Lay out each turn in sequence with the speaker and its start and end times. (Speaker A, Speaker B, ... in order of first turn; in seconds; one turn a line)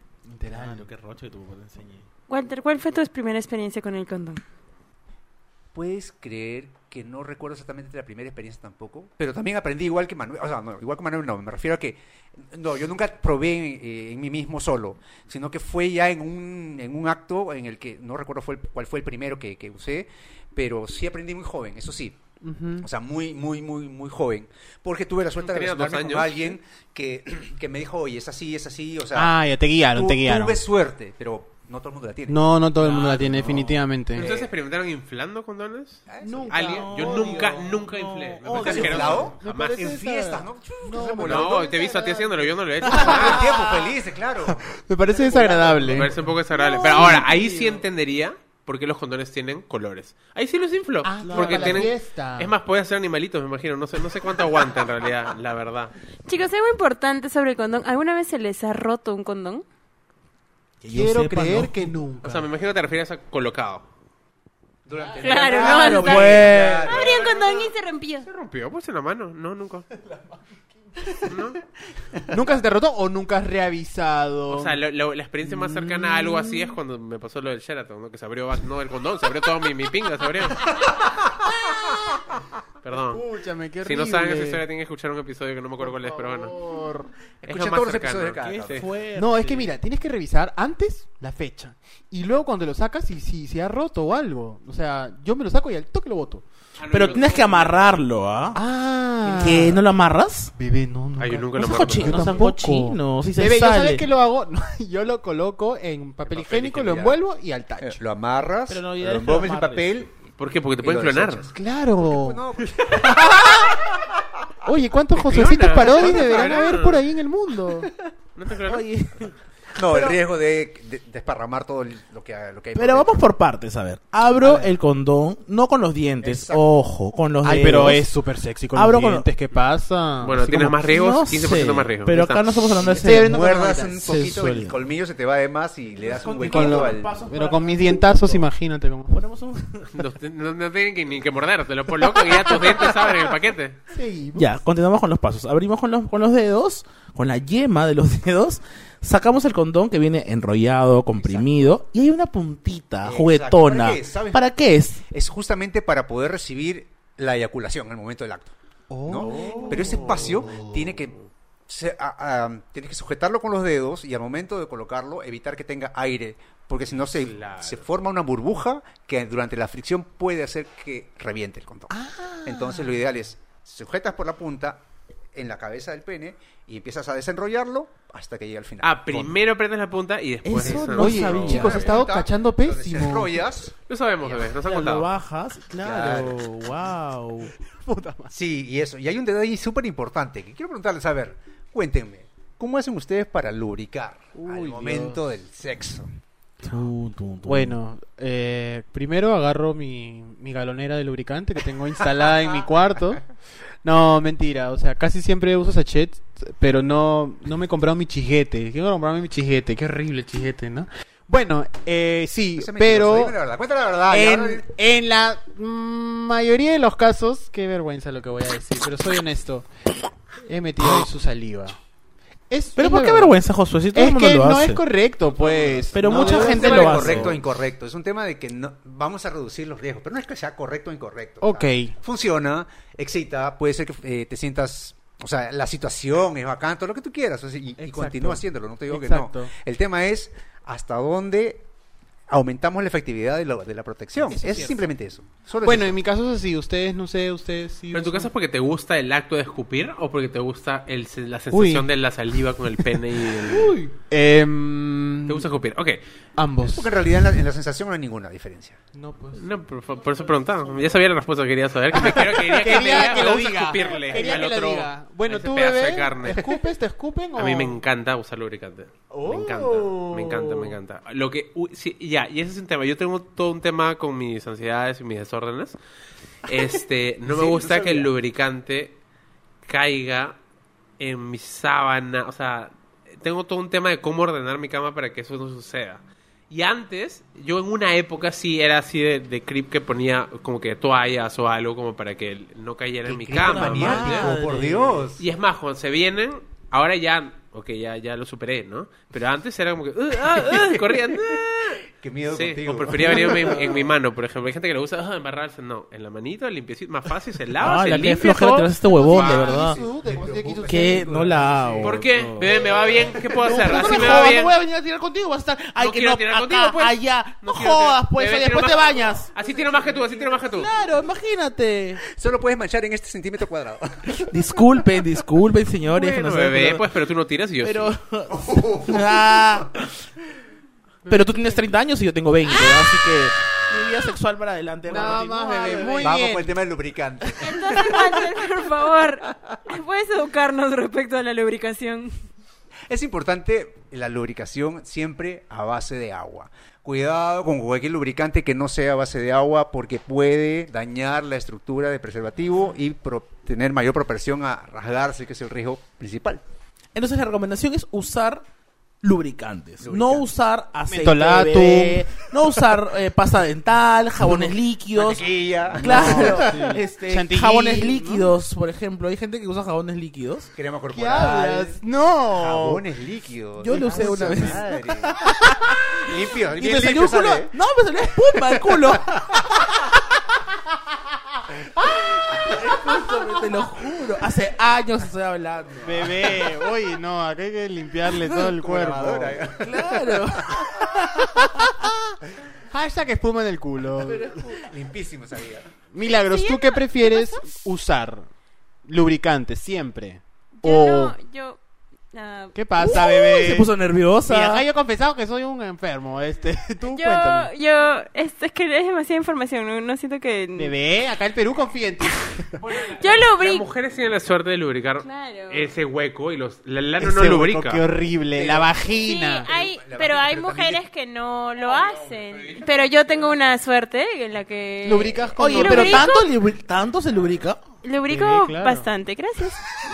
Speaker A: 0.2-0.9
Speaker B: 0.5-2.1
Speaker C: 2.3-4.4
Speaker D: 5.7-22.2
Speaker A: 22.4-22.9
Speaker D: 22.8-29.4
Speaker E: 25.4-26.6
Speaker A: 29.1-30.6
Speaker D: 29.9-32.4
Speaker A: 32.3-34.3
Speaker E: 32.8-33.6
Speaker B: 32.9-33.8
Speaker E: 34.1-39.8
Speaker D: 34.1-34.5
Speaker D: 36.1-36.5
Speaker A: 36.2-37.6
Speaker B: 36.5-39.3
Speaker D: 38.5-41.7
Speaker A: 38.7-43.9
Speaker E: 41.2-43.6
Speaker D: 42.9-44.6
Speaker A: 44.5-46.1
Speaker D: 45.1-46.1
Speaker E: 45.8-55.9
Speaker A: 46.7-47.8
Speaker B: 46.9-47.2
Speaker A: 51.0-52.5
Speaker B: 51.2-51.9
Speaker C: 56.2-59.6
Speaker B: 60.8-61.9
Speaker A: 60.9-62.5
Speaker E: 62.2-63.9
Speaker D: 64.8-67.5
Speaker C: 65.2-68.3
Speaker B: 65.5-67.0
Speaker E: 68.2-69.9
Speaker E: 71.2-71.6
Speaker A: 72.3-74.8
Speaker E: 74.5-80.7
Speaker A: 75.5-76.5
Speaker E: 82.8-83.2
Speaker A: 83.0-84.6
Speaker E: 83.8-86.5
Speaker A: 85.8-87.1
Speaker E: 87.4-88.9
Speaker D: 87.4-88.8
Speaker B: 88.4-89.7
Speaker A: 89.2-96.4
Speaker E: 96.8-98.0
Speaker B: 96.9-98.6
Speaker A: 98.5-99.8
Speaker B: 99.3-100.5
Speaker A: 100.6-108.0
Speaker E: 101.2-102.4
Speaker B: 101.6-104.0
Speaker D: 106.3-107.2
Speaker D: 107.8-110.1
Speaker B: 108.7-109.9
Speaker E: 110.4-111.5
Speaker D: 110.8-114.1
Speaker A: 111.5-112.4
Speaker A: 113.0-113.7
Speaker A: 114.6-117.9
Speaker E: 115.1-117.0
Speaker D: 115.9-116.7
Speaker E: 118.3-118.9
Speaker B: 118.7-120.2
Speaker D: 119.8-123.2
Speaker B: 122.7-128.1
Speaker D: 126.2-126.6
Speaker A: 127.4-130.7
Speaker B: 128.7-129.3
Speaker E: 130.2-132.6
Speaker B: 130.5-134.8
Speaker D: 132.8-137.1
Speaker A: 133.0-133.4
Speaker B: 136.0-138.5
Speaker A: 136.4-139.2
Speaker B: 139.1-140.0
Speaker E: 139.9-143.8
Speaker A: 143.9-144.5
Speaker B: 144.3-155.0
Speaker D: 151.1-151.5
Speaker D: 153.0-154.4
Speaker D: 155.1-158.5
Speaker A: 158.9-160.8
Speaker D: 159.1-161.2
Speaker E: 159.5-160.4
Speaker D: 161.7-171.9
Speaker E: 166.9-167.9
Speaker A: 171.9-172.9
Speaker D: 172.4-174.8
Speaker D: 175.3-179.3
Speaker E: 178.8-182.0
Speaker B: 180.4-181.9
Speaker D: 180.6-184.5
Speaker A: 180.9-183.5
Speaker E: 183.9-185.1
Speaker B: 184.6-187.5
Speaker D: 185.8-186.5
Speaker A: 187.7-188.3
Speaker D: 188.3-196.1
Speaker A: 194.3-195.2
Speaker B: 196.6-197.8
Speaker A: 197.4-203.2
Speaker A: 203.8-213.3
Speaker D: 212.6-214.6
Speaker A: 214.1-219.7
Speaker A: 220.4-221.7
Speaker A: 222.5-223.3
Speaker B: 222.8-224.8
Speaker A: 223.9-227.3
Speaker E: 225.4-227.2
Speaker B: 225.9-227.4
Speaker D: 226.1-241.7
Speaker A: 231.4-231.9
Speaker A: 237.8-239.5
Speaker D: 242.3-246.0
Speaker A: 244.3-244.9
Speaker A: 245.6-248.3
Speaker E: 247.9-253.8
Speaker A: 251.5-251.9
Speaker A: 253.4-255.5
Speaker E: 255.3-256.0
Speaker A: 256.4-256.9
Speaker D: 256.6-258.8
Speaker A: 258.9-259.5
Speaker E: 259.4-266.5
Speaker A: 261.9-267.8
Speaker E: 267.4-275.8
Speaker A: 269.1-270.8
Speaker E: 276.4-279.0
Speaker D: 277.2-278.1
Speaker E: 279.6-280.4
Speaker E: 281.0-294.3
Speaker D: 293.0-295.2
Speaker B: 293.3-295.1
Speaker E: 295.2-309.5
Speaker D: 300.3-301.4
Speaker D: 301.9-303.9
Speaker B: 303.2-303.7
Speaker B: 307.6-309.8
Speaker A: 308.9-311.2
Speaker D: 309.1-314.3
Speaker B: 310.7-312.6
Speaker E: 311.8-314.5
Speaker B: 313.4-319.3
Speaker E: 315.8-320.7
Speaker B: 320.5-322.0
Speaker D: 322.1-324.4
Speaker B: 324.3-326.9
Speaker E: 325.9-327.9
Speaker B: 327.6-329.9
Speaker D: 328.3-329.6
Speaker B: 331.1-336.1
Speaker C: 332.6-332.8
Speaker A: 334.9-336.6
Speaker D: 336.0-338.1
Speaker C: 337.4-342.1
Speaker D: 342.9-356.4
Speaker B: 356.9-358.4
Speaker B: 359.0-370.5
Speaker D: 359.8-360.3
Speaker A: 360.9-362.1
Speaker A: 364.2-364.5
Speaker D: 364.9-366.8
Speaker A: 365.8-368.3
Speaker D: 370.6-371.8
Speaker A: 370.9-372.8
Speaker B: 371.1-371.6
Speaker D: 372.3-375.3
Speaker B: 373.6-376.0
Speaker A: 373.7-374.7
Speaker D: 375.9-377.5
Speaker B: 376.6-379.1
Speaker D: 378.4-379.4
Speaker B: 382.3-386.4
Speaker A: 385.8-389.4
Speaker D: 388.3-390.9
Speaker B: 389.6-391.7
Speaker A: 391.2-392.1
Speaker A: 392.7-394.3
Speaker B: 394.0-394.7
Speaker D: 394.0-395.7
Speaker A: 395.9-398.3
Speaker C: 396.2-397.4
Speaker A: 398.8-401.1
Speaker C: 400.6-401.6
Speaker C: 402.1-403.3
Speaker A: 402.5-403.7
Speaker B: 402.8-404.6
Speaker A: 404.2-407.5
Speaker C: 406.8-410.7
Speaker A: 410.6-412.6
Speaker E: 412.6-417.8
Speaker C: 412.8-413.7
Speaker C: 415.0-415.7
Speaker A: 417.0-419.5
Speaker D: 418.4-418.9
Speaker C: 419.0-426.3
Speaker D: 419.5-420.8
Speaker A: 424.8-426.1
Speaker B: 425.4-427.6
Speaker C: 427.8-429.6
Speaker A: 428.1-428.9